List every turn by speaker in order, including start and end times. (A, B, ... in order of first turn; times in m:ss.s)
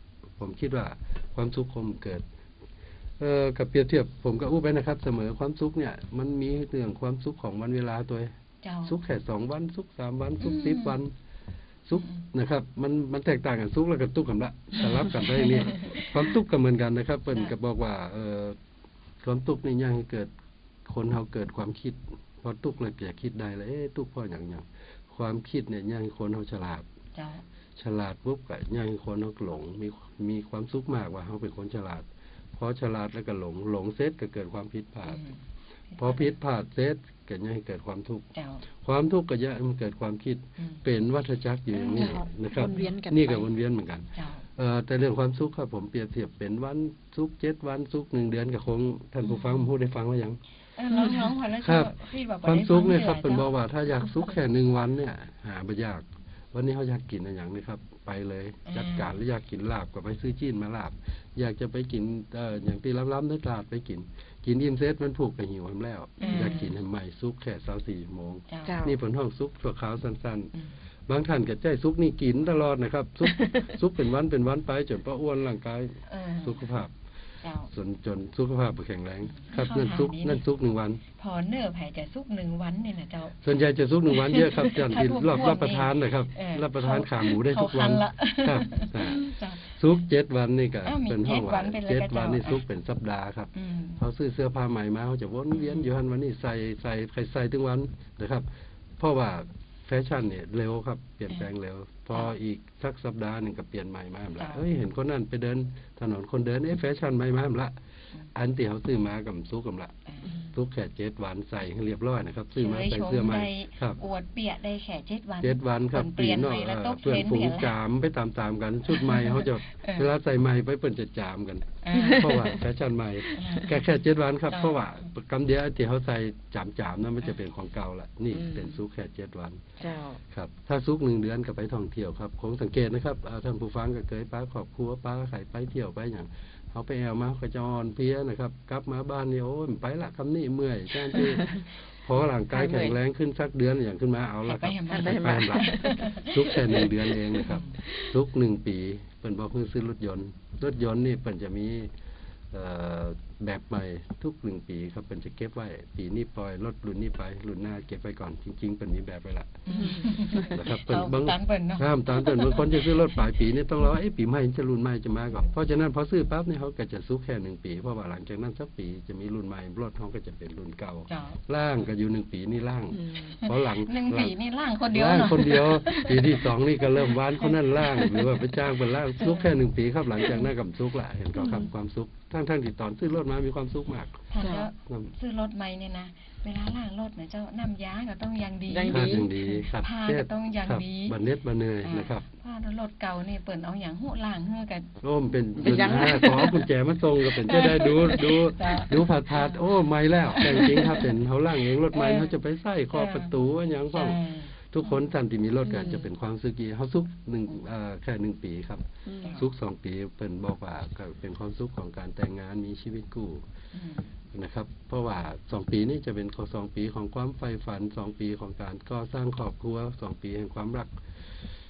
0:00.4-0:02.2 A
0:03.2-0:08.3 A
0:08.6-0:09.0 B
0:08.8-0:11.1 A
0:10.4-0:11.0 B
0:11.8-0:18.6 A
0:12.0-0:12.2 B
0:14.8-0:16.2 B
0:19.2-0:20.3 A
0:20.8-0:26.9 A
0:27.1-0:27.4 B
0:27.8-0:35.2 A
0:35.1-0:35.4 B
0:35.9-0:36.4 B
0:36.0-0:38.3 A
0:38.3-0:38.6 B
0:38.8-0:50.4 A
0:40.6-0:40.8 B
0:41.7-0:43.5 C
0:41.9-0:43.0 B
0:44.1-0:44.4 B
0:49.2-0:49.7 B
0:50.8-0:53.5 B
0:51.6-1:10.5 A
0:58.7-0:59.1 B
1:06.2-1:06.8 B
1:08.5-1:08.8 B
1:08.6-1:09.0 C
1:11.1-1:16.9 A
1:13.3-1:13.7 C
1:16.1-1:16.7 B
1:17.4-1:17.7 B
1:17.7-1:21.0 A
1:19.3-1:20.4 B
1:21.2-1:23.4 B
1:23.4-1:47.8 A
1:24.1-1:29.8 B
1:30.8-1:32.6 B
1:33.5-1:34.0 B
1:35.6-1:35.9 B
1:44.4-1:44.6 B
1:48.3-1:54.0 A
1:50.1-1:50.4 B
1:52.6-1:57.8 B
1:55.4-2:09.7 A
1:58.9-2:00.1 B
2:01.8-2:02.4 B
2:01.9-2:02.6 C
2:03.3-2:03.8 B
2:04.5-2:04.8 B
2:08.3-2:08.8 C
2:09.8-2:10.2 C
2:10.3-2:31.9 A
2:21.1-2:21.6 C
2:22.5-2:23.0 C
2:24.5-2:27.8 B
2:24.9-2:27.0 C
2:27.8-2:28.1 C
2:32.5-2:54.3 A
2:39.7-2:43.2 B
2:39.7-2:40.6 C
2:51.1-2:51.4 B
2:52.9-2:53.3 C
2:53.2-2:56.5 B
2:54.9-3:04.2 A
2:56.1-2:56.3 C
2:57.8-2:58.6 C
2:59.2-2:59.6 B
3:00.2-3:00.5 B
3:01.4-3:01.7 C
3:04.3-3:11.2 B
3:04.4-3:04.7 C
3:04.8-3:05.1 A
3:08.7-3:09.3 C
3:08.9-3:12.2 A
3:11.8-3:15.0 B
3:15.0-3:33.4 A
3:15.6-3:16.6 C
3:15.6-3:16.5 B
3:17.4-3:18.4 C
3:17.7-3:19.7 B
3:20.3-3:20.9 B
3:20.5-3:20.9 C
3:21.9-3:22.4 B
3:22.9-3:23.3 B
3:23.9-3:24.5 B
3:25.7-3:26.1 C
3:29.1-3:29.3 C
3:33.7-3:34.1 B
3:34.3-3:41.0 A